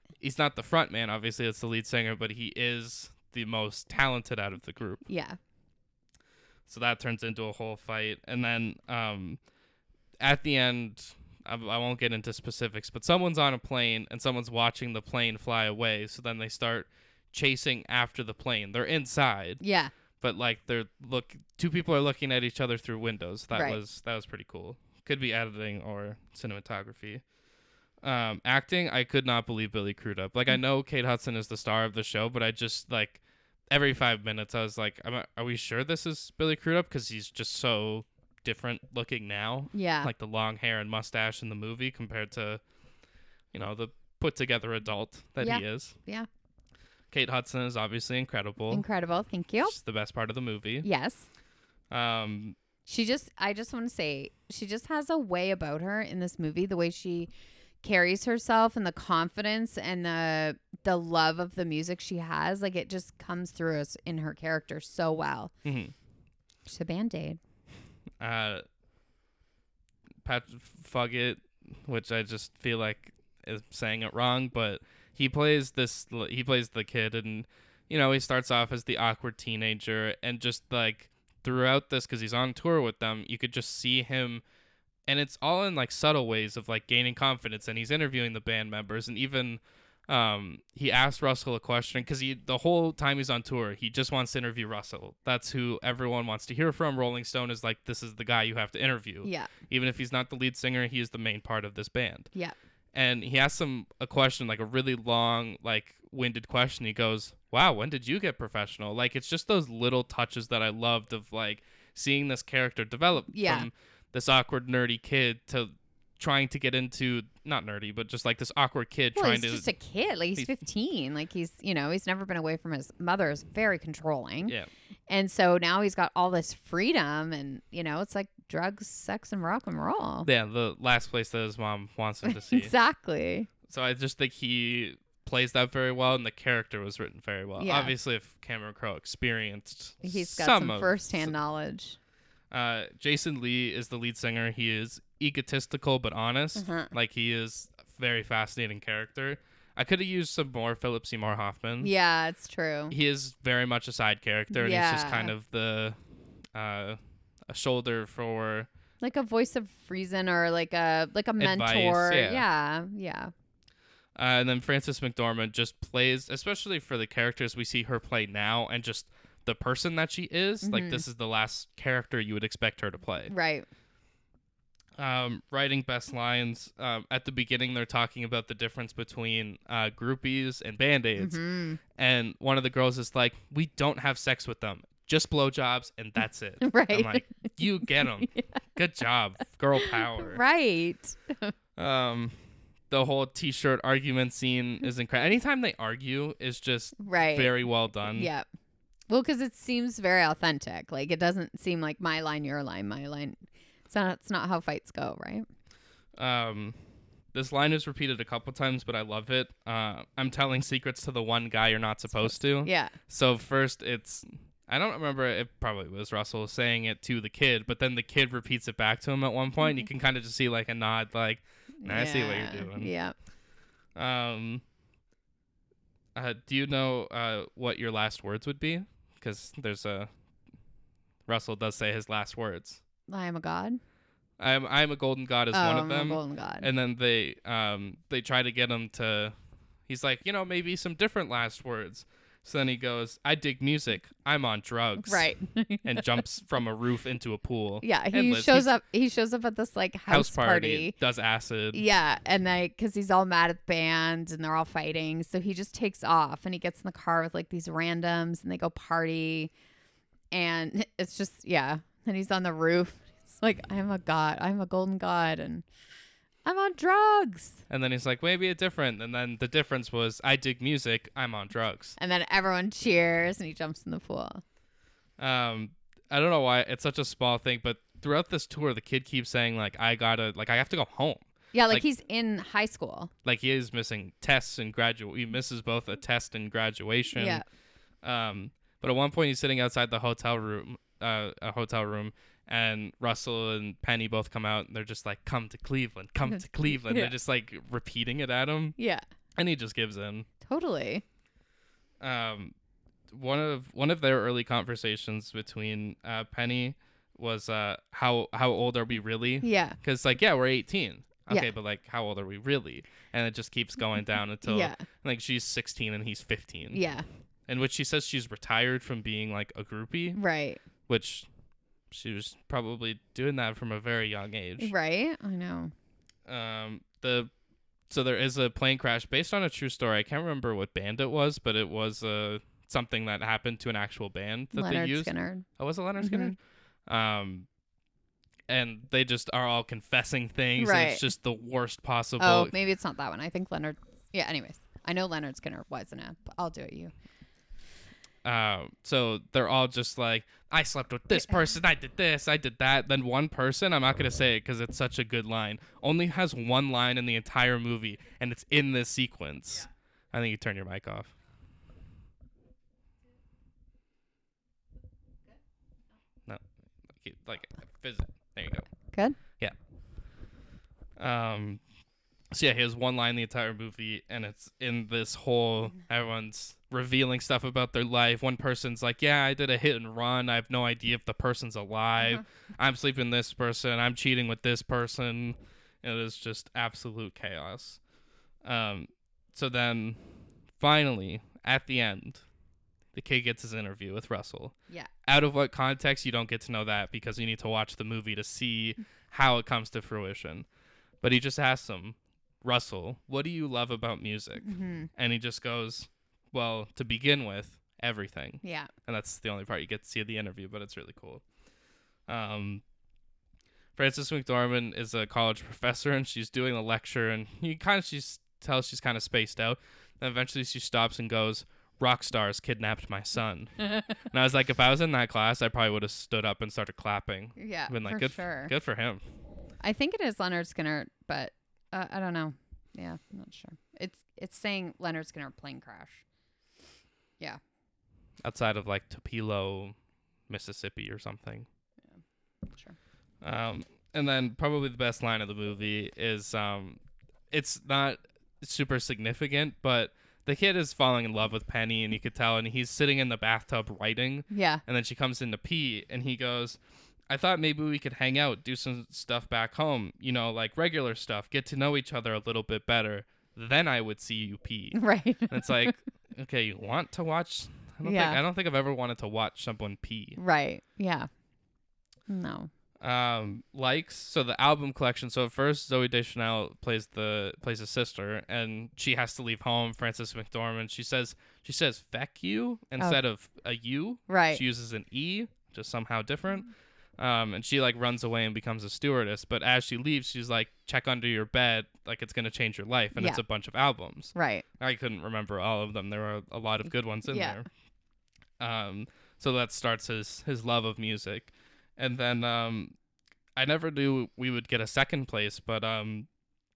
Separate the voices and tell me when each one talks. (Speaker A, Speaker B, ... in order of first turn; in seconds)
Speaker A: 0.2-5.0, 6.7-9.4, 10.2-19.6, 20.2-27.2, 28.0-42.6, 43.5-46.0, 47.1-48.8, 49.6-50.9, 51.9-52.5, 65.6-65.9, 68.2-68.6, 70.2-84.4, 85.1-102.3, 102.9-119.7, 130.2-132.7, 133.7-141.3, 142.5-151.9, 152.9-156.0, 156.5-158.7, 161.4-162.4, 164.2-173.3, 175.0-181.4, 181.9-190.4, 191.8-192.3, 192.9-198.3, 206.2-206.8, 207.3-222.9, 223.9-224.6, 226.1-230.1, 231.3-232.8, 234.4-239.3, 239.9-245.3, 245.8-248.7, 250.1-251.8, 267.7-272.0, 275.2-281.8, 283.2-287.4, 288.0-298.8, 299.4-300.3, 302.0-302.5, 303.1-316.8, 317.5-320.2, 320.9-321.3, 321.9-324.7, 326.2-327.3, 327.9-337.5, 338.5-342.5, 348.2-361.1, 367.0-368.7, 371.0-371.6, 372.3-387.8, 388.4-392.2, 392.9-394.5, 395.1-400.4, 401.0-411.2, 412.1-412.6, 413.8-429.0, 438.2-439.8, 440.3-441.5, 443.2-446.8, 447.3-470.2, 472.8-497.5, 498.4-502.7, 503.4-506.1
Speaker B: 5.0-5.4, 19.6-19.9, 23.5-23.8, 39.7-40.1, 45.4-46.3, 48.7-49.7, 50.8-51.3, 52.9-57.3, 57.8-65.5, 66.7-67.4, 99.2-99.5, 113.3-113.7, 119.1-124.5, 125.1-130.3, 132.2-133.5, 137.6-137.9, 140.0-142.0, 146.6-146.9, 151.8-152.9, 154.5-155.3, 159.0-163.3, 170.6-171.0, 173.3-173.7, 181.2-181.8, 186.6-188.6, 189.8-191.5, 197.0-198.4, 199.1-205.4, 212.1-212.9, 221.8-223.1, 233.1-233.8, 235.5-236.7, 245.0-246.0, 247.8-250.9, 251.7-259.5, 260.3-265.6, 266.4-267.6, 272.0-274.4, 281.5-283.1, 287.1-287.4, 296.2-297.1, 298.8-299.0, 300.4-301.0, 309.4-309.8, 314.4-314.8, 316.7-317.1, 320.1-320.6, 324.6-325.7, 334.5-335.4, 336.0-336.4, 340.6-341.0, 342.2-346.9, 368.9-369.2, 404.4-404.9, 408.4-408.7, 427.4-428.5, 429.6-436.0, 454.3-454.6, 464.7-465.7, 467.8-468.2, 470.2-471.1, 472.1-472.5, 484.1-484.4, 492.9-493.2, 494.1-494.4, 497.1-497.4